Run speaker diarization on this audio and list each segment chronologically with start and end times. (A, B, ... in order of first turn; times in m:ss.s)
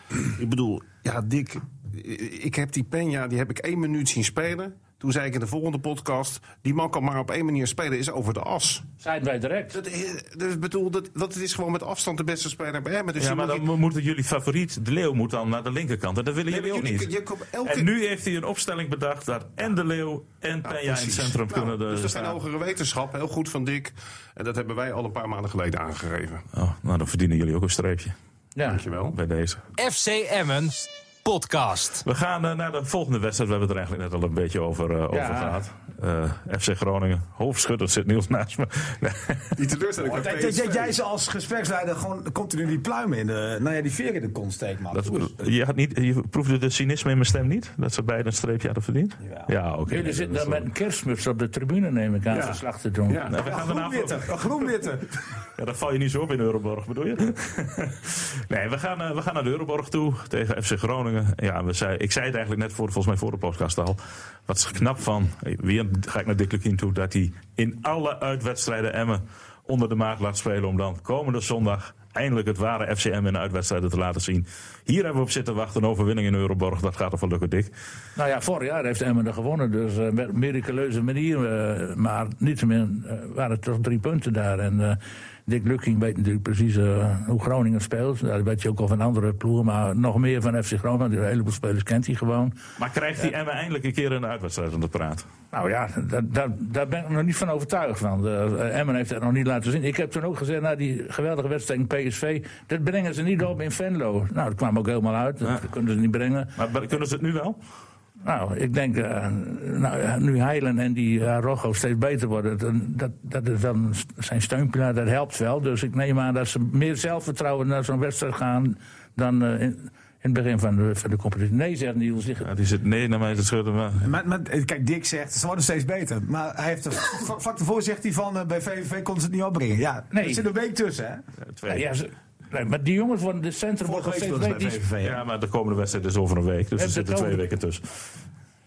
0:00.4-0:08.9 A
0:09.0-0:09.8 B
0:09.7-0:13.7 A
0:13.2-0:17.1 C
0:16.5-0:17.9 A
0:17.6-0:22.4 C
0:20.7-0:26.4 A
0:26.5-0:28.2 C
0:28.6-0:28.8 B
0:28.7-0:29.2 A
0:29.1-0:29.6 C
0:29.8-0:32.0 D
0:32.0-0:39.6 C
0:35.1-0:35.6 B
0:39.6-0:41.0 A
0:40.0-0:45.4 E
0:44.9-0:50.7 C
0:49.2-0:49.5 E
0:49.9-0:53.2 B
0:52.3-0:53.4 A
0:53.3-0:54.5 C
0:53.4-0:55.2 E
0:55.6-1:17.7 C
1:18.2-1:32.6 B
1:32.8-1:35.3 C
1:35.5-1:46.5 B
1:46.6-1:47.6 C
1:48.2-2:02.5 B
2:02.4-2:04.1 C
2:04.0-2:11.2 E
2:10.1-2:10.4 B
2:11.4-2:11.9 C
2:11.7-2:14.8 B
2:13.8-2:15.2 E
2:15.0-2:17.9 C
2:16.8-2:17.4 B